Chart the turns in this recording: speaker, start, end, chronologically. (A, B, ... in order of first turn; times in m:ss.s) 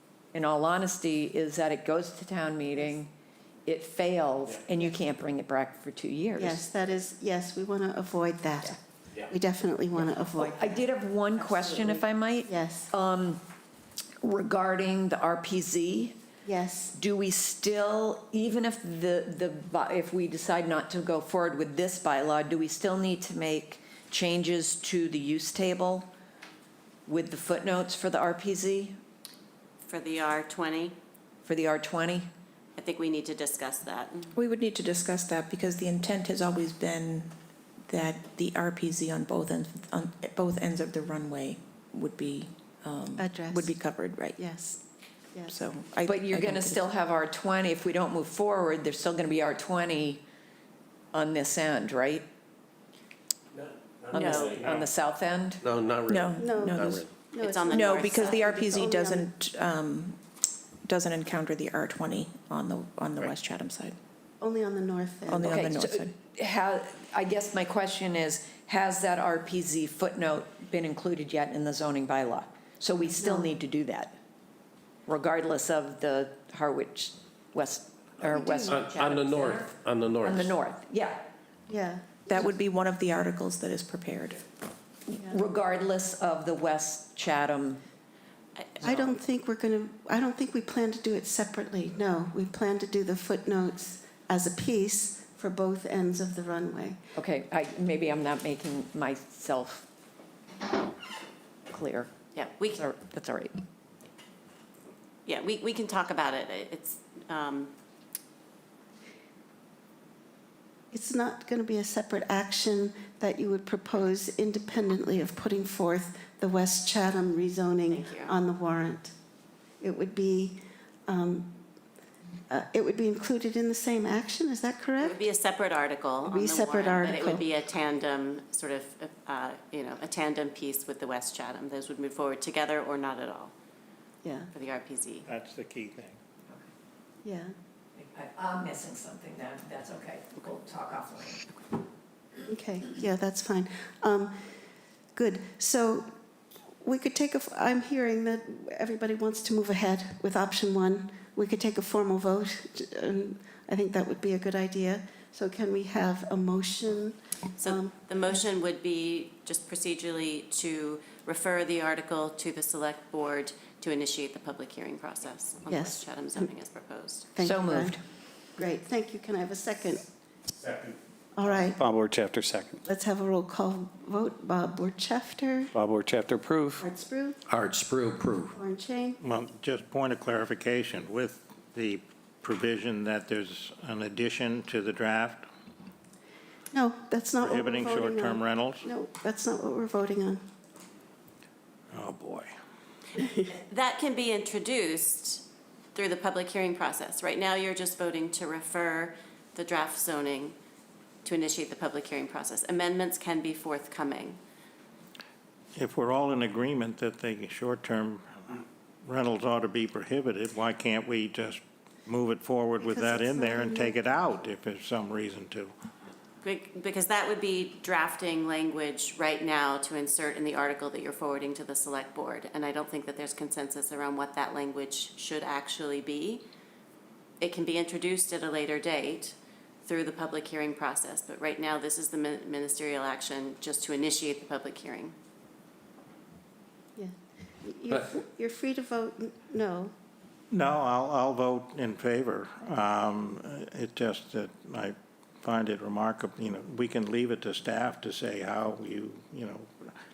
0:00.3-0:03.1 A
0:03.7-0:06.6 A
0:06.4-0:08.8 B
0:09.3-0:10.9 B
0:10.4-0:13.4 A
0:11.4-0:12.9 B
0:14.2-0:16.2 A
0:16.4-0:16.9 B
0:16.9-0:26.1 A
0:27.1-0:29.0 A
0:29.8-0:31.0 C
0:31.4-0:32.3 A
0:32.8-0:34.3 C
0:34.4-0:37.3 D
0:37.9-0:44.4 D
0:43.2-0:43.8 B
0:44.4-0:44.8 B
0:45.5-0:46.8 D
0:46.1-0:50.2 A
0:51.1-0:52.2 A
0:53.5-0:54.9 E
0:54.1-0:55.6 A
0:54.1-0:54.6 C
0:55.6-0:57.1 E
0:56.1-0:57.1 D
0:56.4-0:59.3 B
0:57.4-0:58.7 C
0:57.7-1:00.2 D
1:00.8-1:04.0 D
1:04.4-1:05.6 B
1:05.3-1:06.1 D
1:05.4-1:14.2 A
1:13.2-1:13.5 B
1:15.1-1:21.2 A
1:18.3-1:18.8 B
1:18.7-1:20.5 E
1:21.7-1:22.2 B
1:22.3-1:24.5 D
1:25.1-1:27.8 A
1:28.6-1:29.2 C
1:28.8-1:37.0 B
1:37.2-1:39.9 A
1:41.7-1:42.1 A
1:42.4-1:42.8 C
1:42.7-1:43.6 A
1:45.3-1:47.7 C
1:50.9-1:59.1 B
1:57.9-1:58.3 C
1:59.8-2:01.6 B
2:02.5-2:05.2 B
2:05.0-2:13.5 C
2:06.2-2:07.5 B
2:14.2-2:14.5 B
2:14.5-2:15.3 C
2:15.3-2:16.2 F
2:17.2-2:17.5 B
2:18.0-2:21.5 A
2:22.5-2:24.4 B
2:25.2-2:26.1 B
2:26.8-2:38.4 B
2:37.6-2:47.3 C
2:45.7-2:46.5 B
2:47.3-2:48.0 B
2:47.4-2:48.0 A
2:48.6-2:50.0 B
2:51.3-2:51.8 B
2:51.7-2:52.8 G
2:52.9-2:55.7 B
2:55.7-2:56.8 G
2:56.8-2:57.4 B
2:57.5-2:58.5 E
2:58.5-2:59.2 B
2:59.2-3:05.5 F
3:06.7-3:10.4 B
3:07.4-3:08.9 F
3:11.9-3:12.5 F
3:13.2-3:13.5 B
3:13.7-3:20.6 C
3:21.2-3:24.4 C
3:25.8-3:35.7 F
3:32.8-3:34.0 B
3:36.4-3:46.4 C
3:47.4-3:55.1 C
3:57.6-3:59.9 B
4:00.5-4:09.9 F